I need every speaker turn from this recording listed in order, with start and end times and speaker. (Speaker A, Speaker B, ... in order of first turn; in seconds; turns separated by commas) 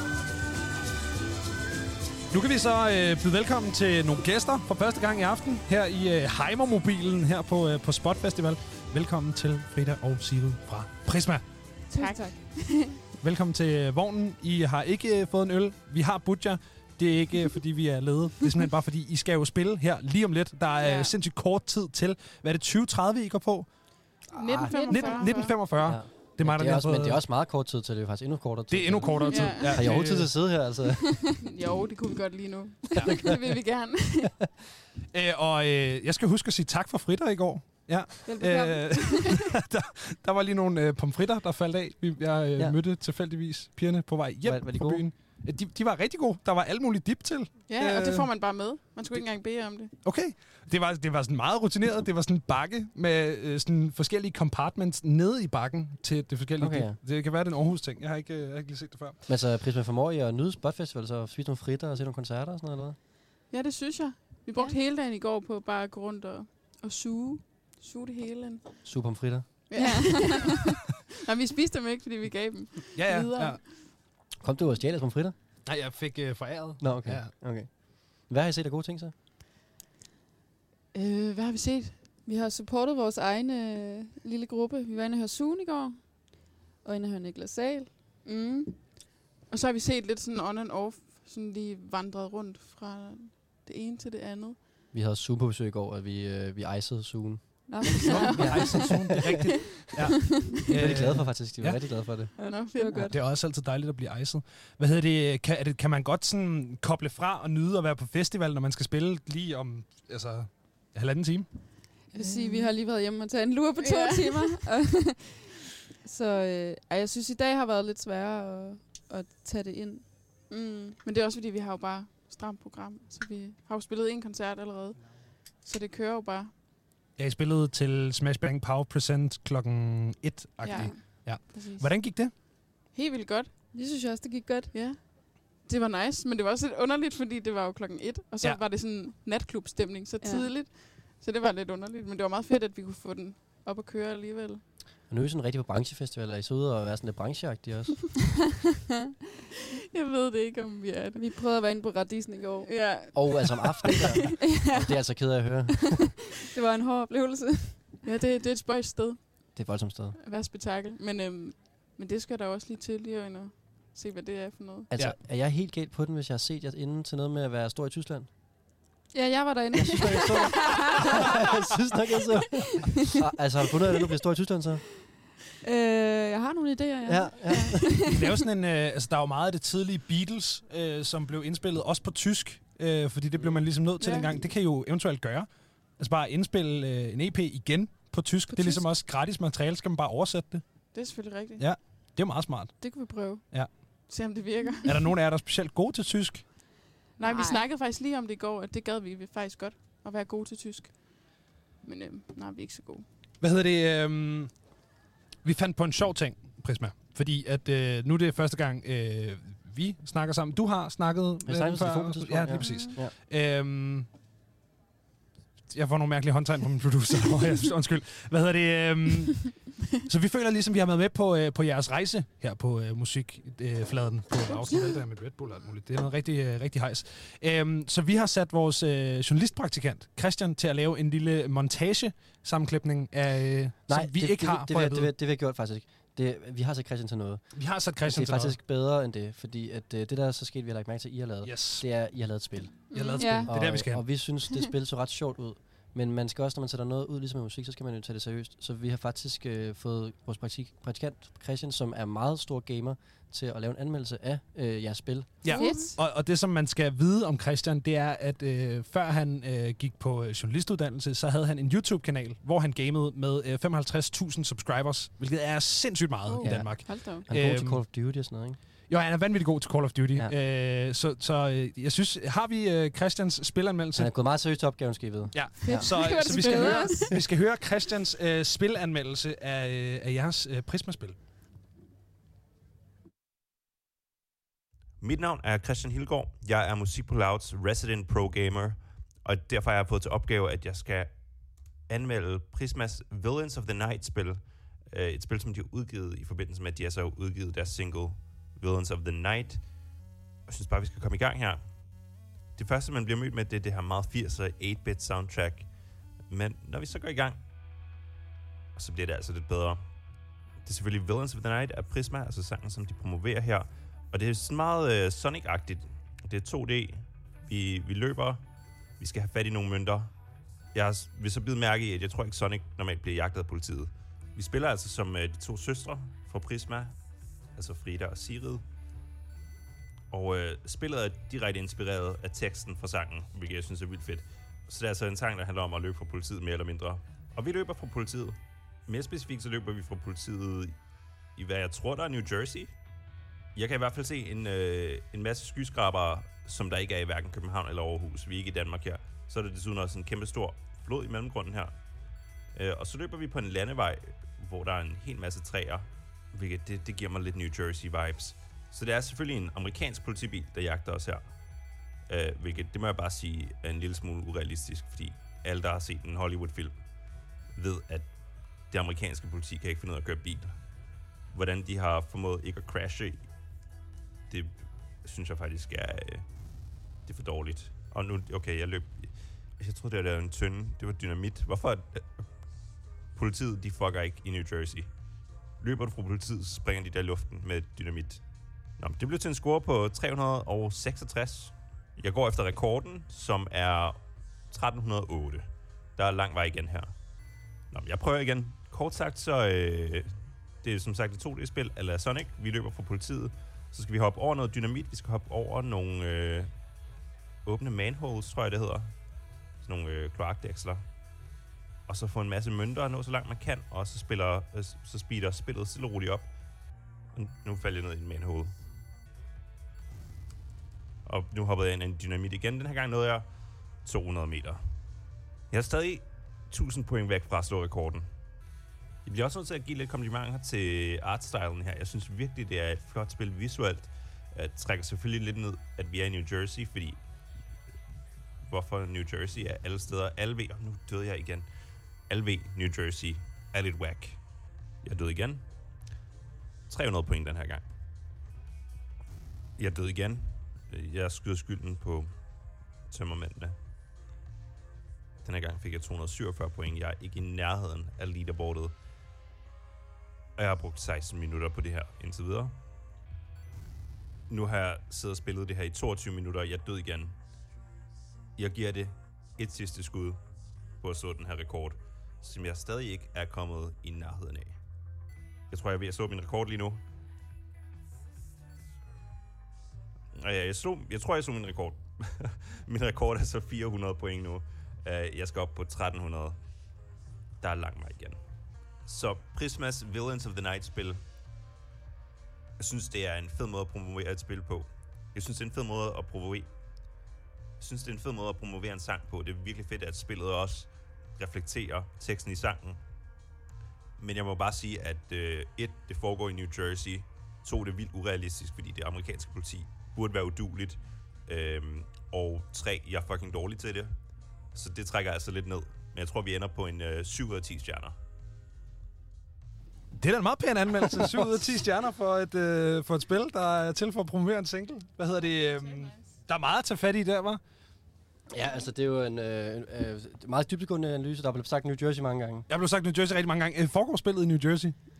Speaker A: 2.3-11.8, Speaker B: 11.9-12.7, Speaker C: 11.9-13.0, Speaker A: 13.2-24.2, Speaker C: 20.8-21.1, Speaker D: 24.3-24.8, Speaker C: 24.3-25.7, Speaker B: 24.6-25.4, Speaker A: 24.8-27.2, Speaker D: 25.7-31.4, Speaker A: 28.7-30.6, Speaker C: 29.3-29.9, Speaker C: 31.4-34.4, Speaker D: 33.0-33.3, Speaker A: 35.1-48.3, Speaker B: 38.2-39.4, Speaker D: 44.4-45.0, Speaker C: 47.7-50.0, Speaker A: 50.0-59.2, Speaker D: 56.6-57.0, Speaker D: 59.2-63.0, Speaker C: 63.5-70.7, Speaker D: 68.8-70.1, Speaker B: 69.7-70.6, Speaker C: 71.3-73.8, Speaker A: 72.9-73.6, Speaker D: 74.3-75.3, Speaker A: 75.6-77.3, Speaker D: 76.8-79.1, Speaker C: 80.9-81.9, Speaker B: 82.2-87.9, Speaker C: 88.2-94.6, Speaker D: 94.9-99.7, Speaker B: 97.7-98.8, Speaker A: 98.0-102.3, Speaker C: 98.1-98.7, Speaker D: 100.7-102.3, Speaker B: 102.4-103.2, Speaker C: 102.4-103.1, Speaker A: 103.0-112.0, Speaker C: 112.1-112.8, Speaker B: 112.1-120.0, Speaker C: 113.8-114.7, Speaker C: 120.5-126.5, Speaker A: 127.2-132.4, Speaker C: 130.6-133.6, Speaker B: 130.6-131.0, Speaker B: 133.7-134.7, Speaker C: 134.7-144.6, Speaker B: 140.2-140.5, Speaker D: 145.1-148.1, Speaker C: 149.9-151.2, Speaker B: 151.2-153.4, Speaker C: 152.7-154.2, Speaker D: 153.1-156.2, Speaker B: 154.4-155.7, Speaker B: 156.5-158.0, Speaker C: 158.0-164.9, Speaker D: 159.5-160.2, Speaker D: 164.9-168.3, Speaker B: 169.1-171.2, Speaker D: 169.7-174.8, Speaker B: 175.6-178.2, Speaker D: 177.1-178.0, Speaker A: 178.0-193.9, Speaker D: 183.3-183.7, Speaker C: 184.0-184.5, Speaker B: 188.5-188.8, Speaker C: 190.9-191.7, Speaker B: 192.8-193.8, Speaker C: 194.1-194.9, Speaker A: 194.8-196.8, Speaker C: 197.2-203.1, Speaker B: 197.2-197.6, Speaker A: 203.4-214.1, Speaker D: 211.4-213.1, Speaker C: 212.6-212.9, Speaker A: 215.7-235.1, Speaker D: 233.9-255.4, Speaker A: 237.5-238.6, Speaker A: 241.4-241.9, Speaker A: 242.9-244.2, Speaker C: 242.9-243.5, Speaker B: 243.2-243.7, Speaker A: 255.4-267.9, Speaker C: 255.4-255.9, Speaker B: 255.5-256.0, Speaker C: 266.2-267.3, Speaker D: 266.4-268.6, Speaker A: 268.9-274.2, Speaker D: 273.9-276.2, Speaker A: 275.3-281.1, Speaker B: 275.6-277.1, Speaker C: 275.6-277.1, Speaker E: 285.0-307.4, Speaker E: 308.7-318.4, Speaker E: 319.0-320.1, Speaker E: 320.7-327.0, Speaker E: 327.5-328.6, Speaker E: 330.1-340.8, Speaker E: 341.3-342.7, Speaker E: 343.5-351.7, Speaker E: 352.5-366.8, Speaker E: 367.5-370.6, Speaker E: 371.3-373.3, Speaker E: 374.3-376.3, Speaker E: 377.0-384.9, Speaker E: 385.6-396.9, Speaker E: 397.7-406.5, Speaker E: 407.4-408.9, Speaker E: 409.6-410.8, Speaker E: 411.9-416.3, Speaker E: 417.1-418.5, Speaker E: 421.0-424.6, Speaker E: 425.5-428.1, Speaker E: 429.0-437.0, Speaker E: 438.5-444.2, Speaker E: 444.8-445.4, Speaker E: 446.7-447.6, Speaker E: 449.6-452.1, Speaker E: 452.9-453.6, Speaker E: 455.2-458.7, Speaker E: 460.4-462.5, Speaker E: 464.3-467.1, Speaker E: 468.4-470.2, Speaker E: 470.8-474.6, Speaker E: 475.5-476.8, Speaker E: 480.1-486.4, Speaker E: 487.4-488.2, Speaker E: 488.8-491.0, Speaker E: 492.6-496.5, Speaker E: 497.6-502.8, Speaker E: 504.0-513.9, Speaker E: 514.5-517.9, Speaker A: 519.9-527.4, Speaker C: 525.5-526.2, Speaker D: 528.3-532.5, Speaker A: 532.5-534.8